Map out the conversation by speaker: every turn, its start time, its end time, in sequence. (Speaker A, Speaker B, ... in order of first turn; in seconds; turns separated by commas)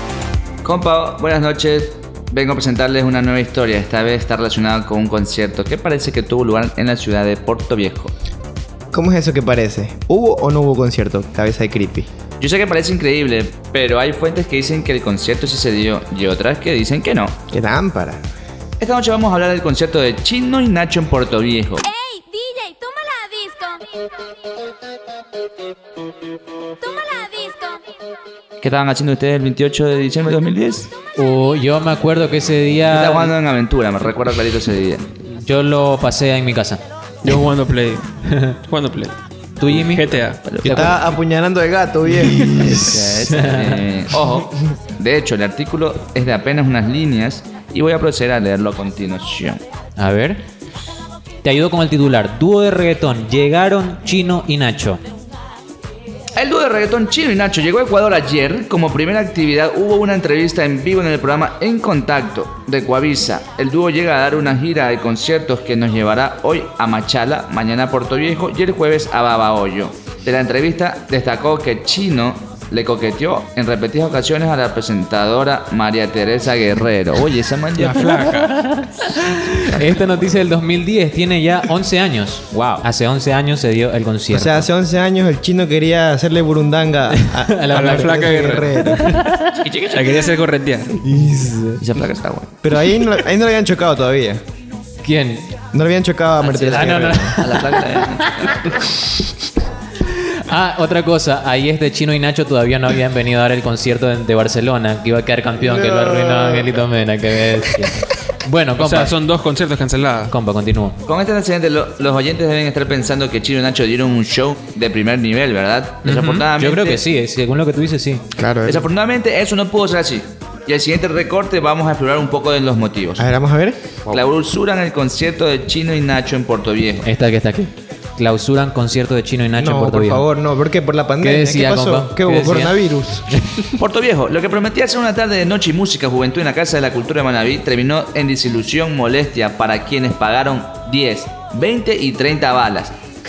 Speaker A: 0.6-8.1, Speaker B: 8.9-12.1, Speaker A: 12.4-17.4, Speaker B: 17.5-18.2, Speaker A: 18.8-21.9, Speaker C: 21.9-23.8, Speaker C: 26.8-27.8, Speaker A: 28.6-30.9, Speaker D: 31.2-33.3, Speaker A: 32.9-35.1, Speaker D: 35.2-36.8, Speaker E: 37.2-38.1, Speaker E: 38.6-40.4, Speaker D: 39.6-41.0, Speaker A: 40.4-41.0, Speaker B: 40.6-42.8, Speaker D: 42.2-43.8, Speaker A: 42.4-49.6, Speaker D: 50.0-50.4, Speaker D: 51.4-55.0, Speaker A: 56.4-78.1, Speaker E: 77.8-78.7, Speaker D: 78.2-84.7, Speaker B: 84.3-89.0, Speaker D: 87.2-89.6, Speaker E: 87.7-89.3, Speaker A: 89.6-90.1, Speaker E: 89.9-91.0, Speaker D: 91.1-91.7, Speaker B: 91.1-91.6, Speaker A: 91.8-92.5, Speaker B: 92.6-94.4, Speaker D: 95.0-95.5, Speaker B: 95.7-97.4, Speaker A: 96.4-98.9, Speaker D: 96.7-98.9, Speaker D: 100.0-109.1, Speaker B: 105.6-106.8, Speaker E: 108.8-110.3, Speaker D: 110.3-111.0, Speaker A: 111.0-117.0, Speaker D: 116.0-118.2, Speaker B: 118.3-118.9, Speaker A: 118.7-123.3, Speaker B: 123.2-124.2, Speaker A: 124.1-127.0, Speaker D: 127.0-130.2, Speaker B: 129.6-133.3, Speaker D: 131.2-132.8, Speaker A: 133.8-142.9